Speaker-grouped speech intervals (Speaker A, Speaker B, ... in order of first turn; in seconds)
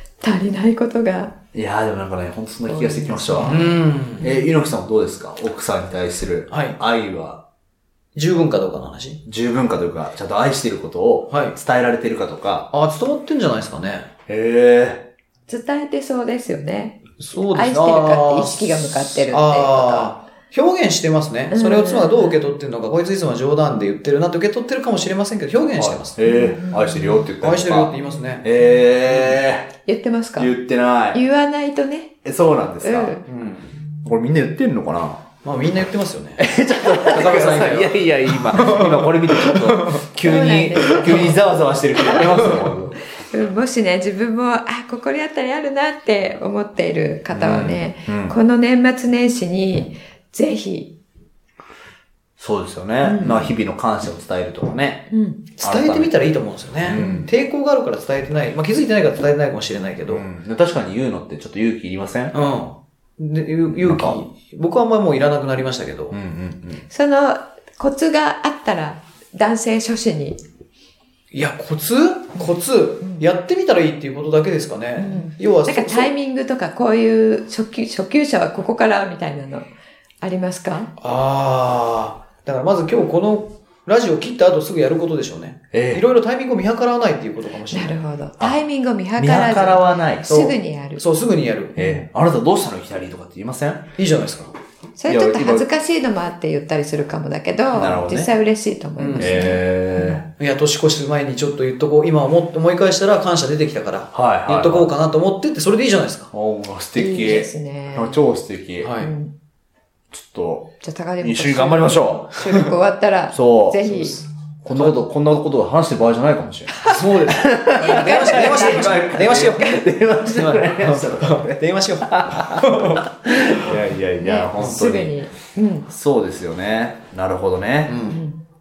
Speaker A: 0.2-1.3, 2.7-3.7, 15.5-17.0, 17.5-20.1, 21.5-22.4, 26.3-27.2, 29.9-30.5, 31.1-32.2, 32.8-33.2, 40.2-41.4, 43.2-50.9, 53.0-53.5, 55.1-55.4, 56.9-57.3, 66.9-70.4, 75.0-79.7, 80.2-80.9, 87.7-91.0, 91.8-92.0, 95.0-100.2, 107.0-108.2, 109.0-109.3, 110.8-114.2, 116.7-117.2, 117.8-119.8, 124.2-125.9, 128.1-128.4
Speaker B: 1.5-3.6, 4.2-7.4, 9.3-12.7, 14.3-15.1, 25.8-29.7, 30.4-31.2, 32.2-33.2, 34.0-35.2, 36.4-43.0, 47.3-48.4, 52.4-56.1, 56.8-57.2, 60.1-62.4, 63.7-64.2, 66.1-66.8, 85.7-86.0, 89.2-90.5, 91.8-93.9, 95.1-95.7, 97.7-98.3, 99.2-100.3, 104.1-104.9, 106.3-109.0, 110.1-112.4, 113.3-113.8, 114.6-125.2, 125.9-128.0
Speaker C: 3.4-4.3, 6.5-6.8, 8.2-9.2, 11.3-11.6, 12.7-14.1, 17.2-26.2, 27.4-28.5, 33.3-33.8, 35.4-40.0, 41.0-41.3, 42.2-42.7, 55.6-60.2, 62.3-66.2, 71.3-76.1, 81.0-88.0, 90.3-91.8, 94.0-94.6, 99.0-99.6, 100.4-106.3, 108.8-109.1, 113.8-115.0, 116.9-123.1, 127.9-128.2